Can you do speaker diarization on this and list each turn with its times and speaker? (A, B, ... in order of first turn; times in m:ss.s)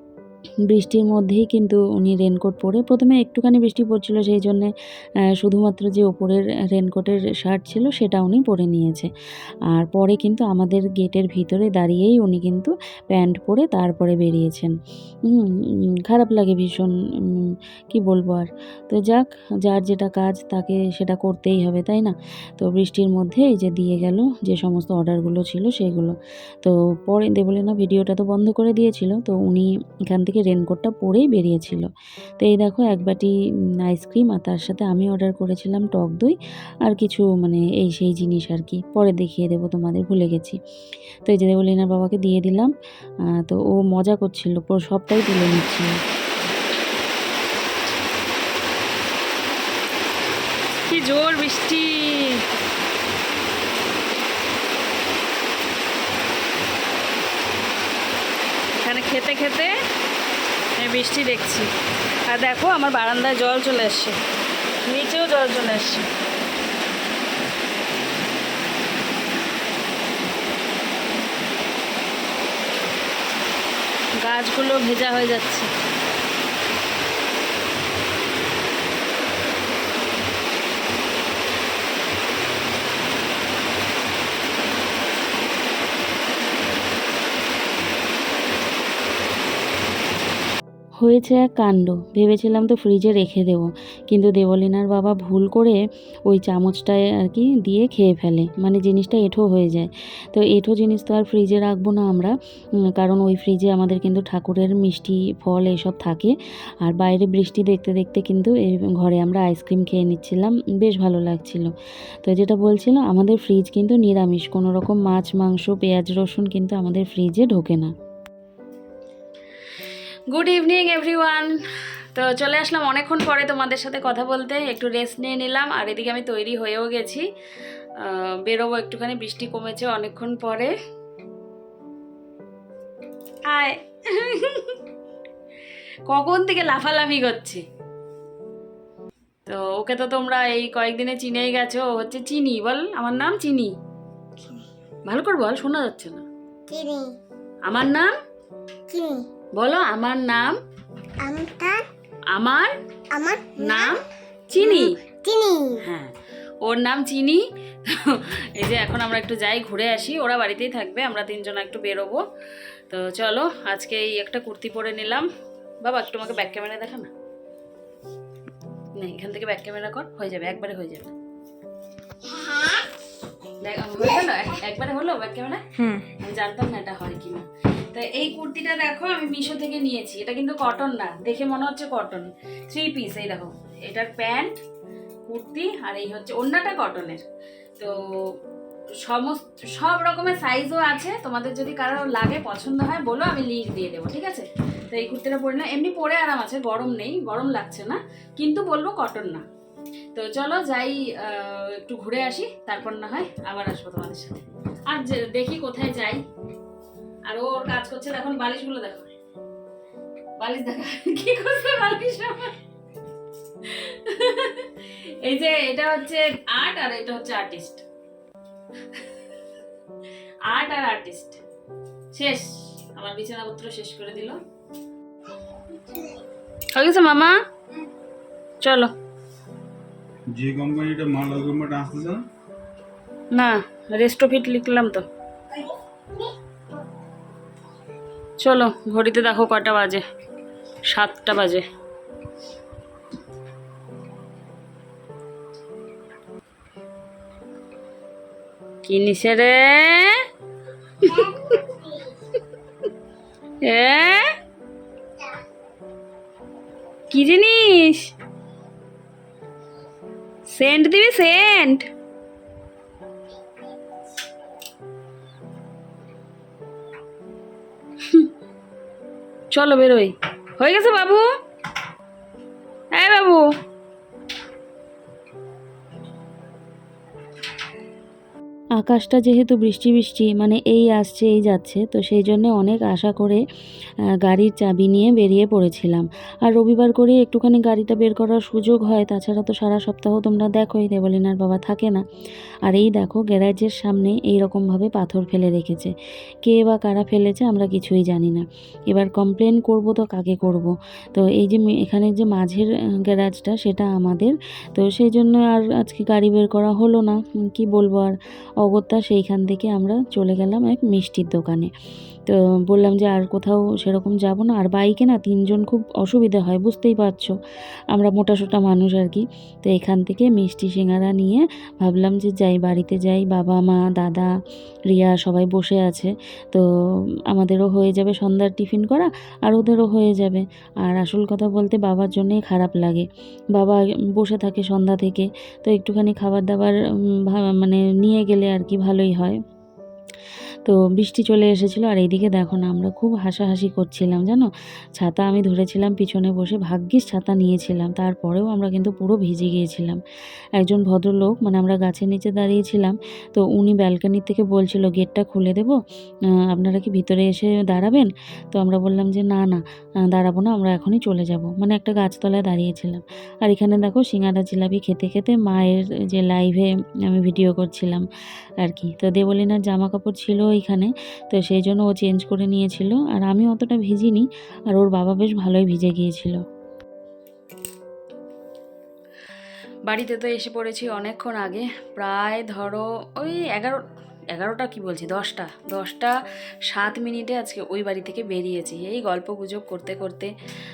0:00.7-0:04.7 A
0:05.4-0:09.1 A
0:09.7-0:14.7 A
0:15.3-0:31.9 A
0:32.4-0:33.3 A
0:33.8-0:40.6 A
0:41.2-0:42.7 A
0:43.3-0:46.0 A
0:50.9-0:52.4 A
0:58.8-0:59.7 A
1:00.8-1:01.7 A
1:02.2-1:04.2 A
1:04.9-1:06.1 A
1:14.2-1:15.7 A
1:31.0-1:42.3 A
1:43.0-1:51.7 A
1:52.2-1:57.9 A
2:00.3-2:01.6 A
2:02.1-2:07.3 A
2:08.0-2:10.8 A
2:13.5-2:14.8 A
2:16.1-2:17.6 A
2:19.5-2:23.7 A
2:25.1-2:26.2 A
2:26.7-2:27.2 B
2:27.7-2:28.1 A
2:28.9-2:29.3 B
2:29.6-2:30.6 A
2:31.2-2:31.9 B
2:32.3-2:32.7 A
2:33.1-2:34.0 B
2:33.6-2:35.0 A
2:34.6-2:35.8 B
2:35.8-2:36.1 A
2:36.6-2:42.2 A
2:42.9-2:45.3 A
2:45.8-2:47.1 A
2:49.0-2:51.1 A
2:52.3-2:52.8 B
2:53.6-3:04.6 A
3:05.3-3:07.2 A
3:07.8-3:08.4 A
3:09.0-3:19.4 A
3:20.1-3:26.2 A
3:27.3-3:29.1 A
3:30.4-3:32.6 A
3:33.6-3:37.8 A
3:40.5-3:41.4 A
3:42.1-3:44.4 A
3:46.7-3:47.4 A
3:48.6-3:48.9 A
3:50.3-3:52.3 C
3:53.3-3:55.0 A
3:58.4-4:00.0 A
4:00.9-4:01.6 A
4:08.8-4:10.2 A
4:11.0-4:11.6 A
4:11.0-4:12.2 B
4:13.6-4:14.3 A
4:17.1-4:18.1 A
4:20.5-4:21.9 A
4:28.0-4:28.3 A
4:29.5-4:31.2 A
4:33.0-4:33.5 A
4:38.8-4:43.4 A
4:44.2-4:52.0 A
4:52.6-5:11.7 A
5:12.3-5:17.4 A
5:17.9-5:24.3 A
5:24.9-5:26.7 A
5:27.3-5:39.4 A
5:40.6-5:50.0 A
5:50.6-5:55.8 A
5:56.5-6:08.0 A
6:08.6-6:16.4 A
6:19.9-6:23.8 A
6:24.3-6:26.2 A
6:26.7-6:30.3 A